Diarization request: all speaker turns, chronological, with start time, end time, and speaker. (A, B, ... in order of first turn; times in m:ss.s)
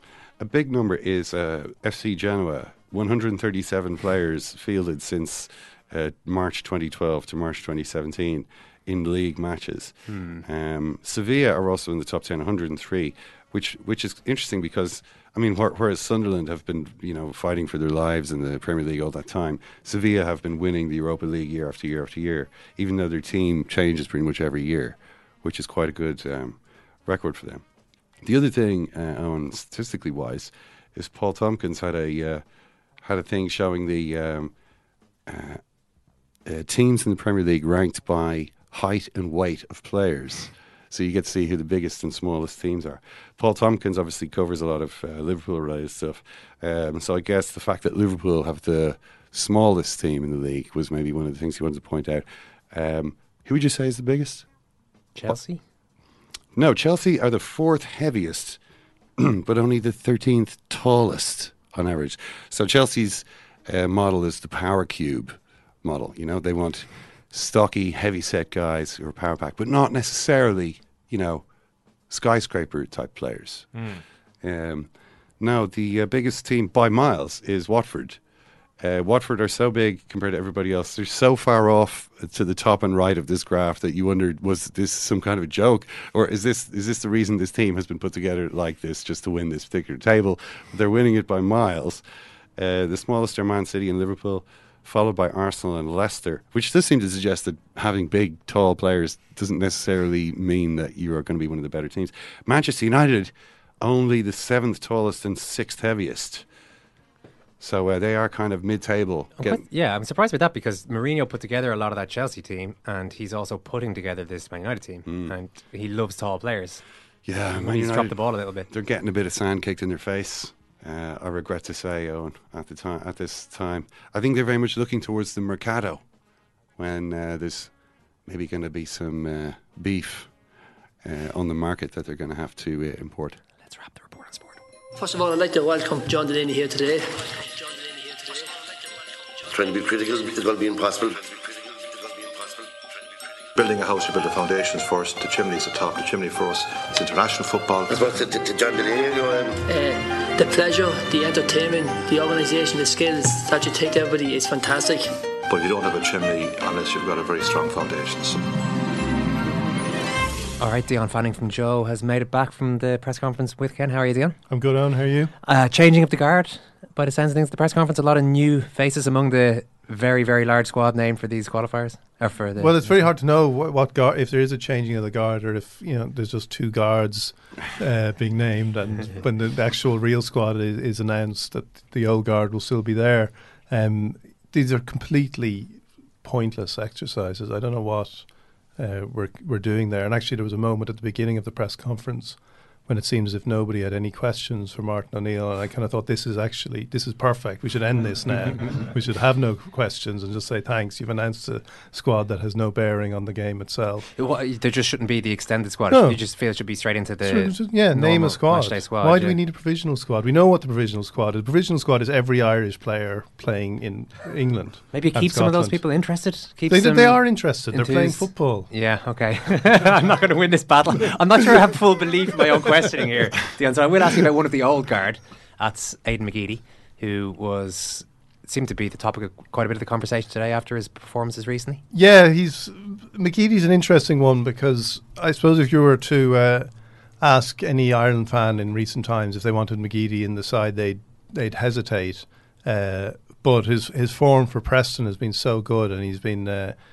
0:00.4-0:27.6 A
0:10.1-0:10.4 B
0:28.2-0:32.4 A
0:33.0-0:34.5 A
0:35.3-0:35.6 A
0:36.4-0:54.5 A
0:55.2-0:55.6 B
0:56.6-0:58.6 A
0:59.2-1:11.4 A
1:12.1-1:13.8 A
1:14.4-1:18.2 A
1:18.8-1:32.0 A
1:32.6-1:46.4 A
1:47.6-1:49.6 A
1:49.4-1:56.8 B
1:55.1-1:55.3 A
1:57.2-1:58.2 A
1:57.5-1:58.7 B
1:58.7-2:06.0 A
2:06.8-2:07.7 A
2:08.3-2:10.3 A
2:11.0-2:13.4 A
2:13.6-2:14.6 B
2:15.0-2:18.5 C
2:19.5-2:22.7 D
2:23.6-2:28.1 E
2:27.9-2:29.6 D
2:29.7-2:35.1 C
2:35.5-2:38.4 E
2:40.6-2:44.4 B
2:44.5-2:45.3 F
2:45.4-2:52.9 B
2:52.6-3:24.1 F
3:24.2-3:29.4 B
3:25.9-3:26.2 F
3:27.2-3:35.8 F
3:34.9-3:37.2 B
3:36.7-3:38.7 F
3:37.7-3:51.8 B
3:51.9-3:56.7 F
3:57.2-4:06.8 F